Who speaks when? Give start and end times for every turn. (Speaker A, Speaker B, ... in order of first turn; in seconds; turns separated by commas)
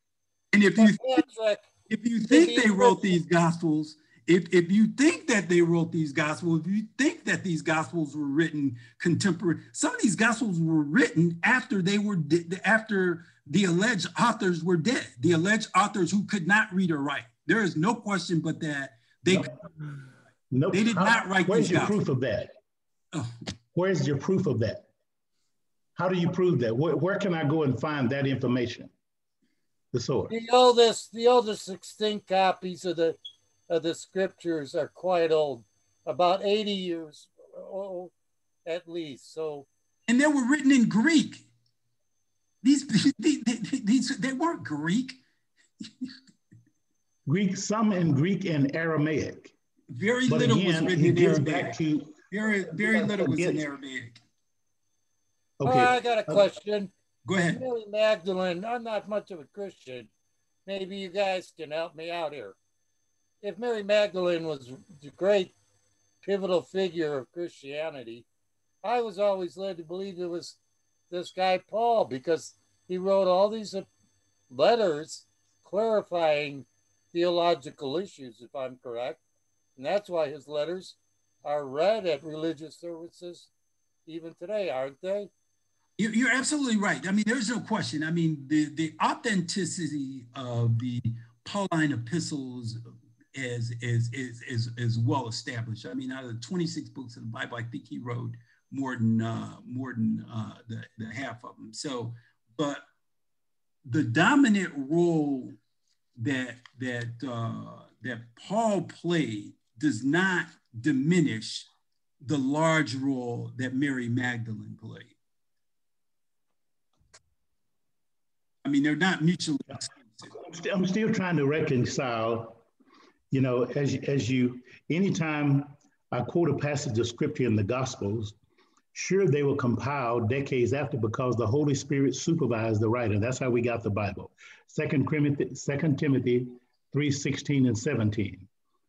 Speaker A: 0.5-1.2, Speaker B: 0.7-1.7, Speaker A: 1.9-19.5, Speaker B: 2.3-3.1, Speaker C: 19.3-19.6, Speaker C: 20.5-22.5, Speaker A: 20.7-22.0, Speaker C: 23.7-24.9, Speaker C: 26.0-28.9, Speaker C: 29.9-30.4, Speaker B: 30.3-33.2, Speaker B: 33.7-38.1, Speaker B: 38.6-39.7, Speaker A: 40.1-41.5, Speaker A: 42.6-45.2, Speaker A: 45.8-46.1, Speaker C: 47.2-49.5, Speaker A: 49.9-54.2, Speaker C: 50.2-53.6, Speaker C: 55.6-56.5, Speaker B: 55.6-60.1, Speaker A: 57.2-57.6, Speaker B: 60.6-62.6, Speaker B: 63.4-65.5, Speaker B: 66.2-68.2, Speaker B: 68.8-70.6, Speaker B: 71.1-73.9, Speaker B: 74.5-79.2, Speaker B: 79.8-83.5, Speaker B: 84.0-85.3, Speaker A: 86.0-102.8, Speaker A: 103.8-105.6, Speaker A: 106.2-111.7, Speaker A: 112.2-115.1, Speaker A: 118.6-120.3, Speaker C: 120.2-122.6, Speaker C: 123.3-128.3, Speaker C: 128.9-138.5